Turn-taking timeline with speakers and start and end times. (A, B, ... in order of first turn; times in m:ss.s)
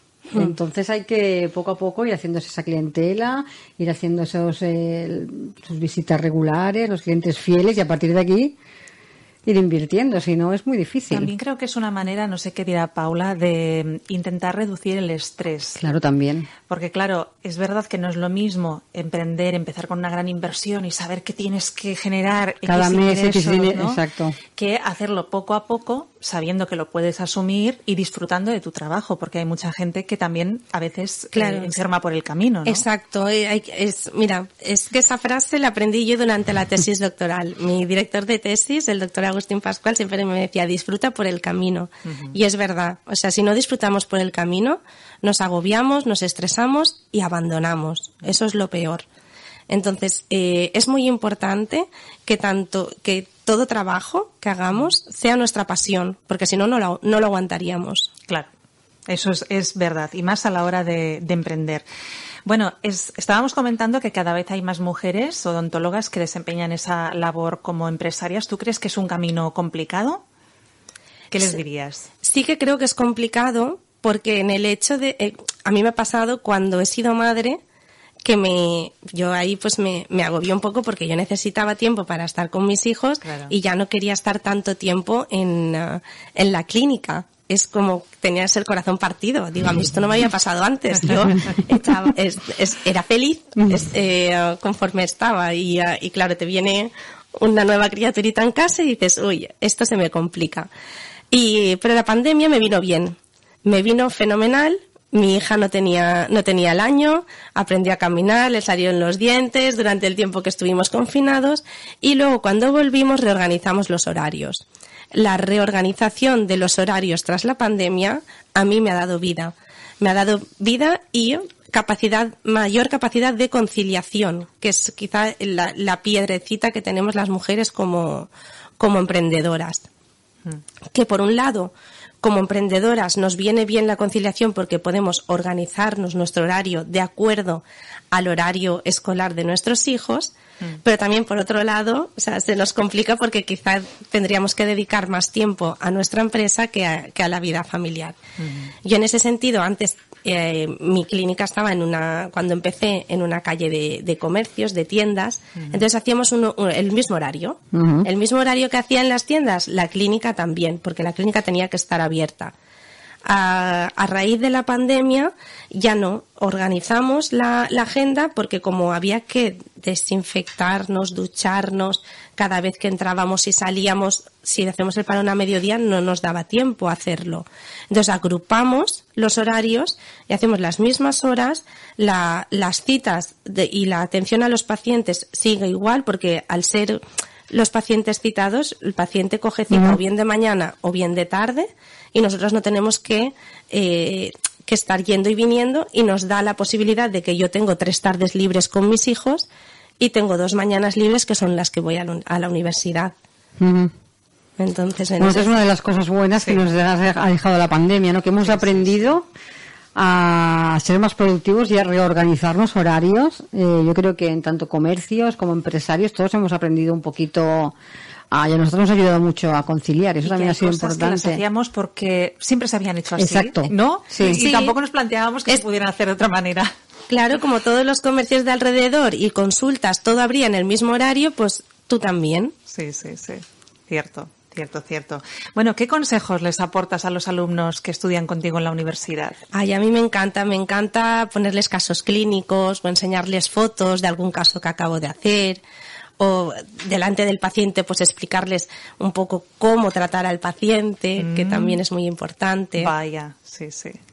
0:00.3-0:08.6 A
0:09.4-0:11.3 A
0:11.1-0:15.8 B
0:15.8-0:16.5 A
0:16.7-0:24.0 B
0:22.6-0:24.4 A
0:24.6-0:32.8 B
0:31.3-0:31.8 C
0:32.6-0:49.0 C
0:42.0-0:42.3 B
0:49.7-0:58.1 C
0:59.1-1:01.8 B
1:02.4-1:10.2 B
1:11.3-1:12.1 B
1:12.2-1:17.6 C
1:18.2-1:40.7 C
1:23.2-1:23.5 B
1:41.3-2:09.9 C
2:10.9-2:28.2 C
2:28.4-2:28.7 B
2:28.8-2:42.5 C
2:37.7-2:38.1 A
2:43.2-3:19.5 C
3:09.7-3:10.0 A
3:20.0-3:23.1 C
3:23.6-3:23.9 A
3:24.6-3:25.5 C
3:25.2-3:29.2 A
3:28.4-3:29.2 B
3:29.9-3:37.7 A
3:38.3-3:41.4 A
3:40.2-3:46.7 B
3:43.2-3:44.4 A
3:44.2-3:44.7 C
3:47.1-3:52.5 C
3:52.7-3:59.4 B
3:59.5-4:05.6 C
4:06.2-4:12.9 C
4:11.2-4:11.8 B
4:12.8-4:14.0 B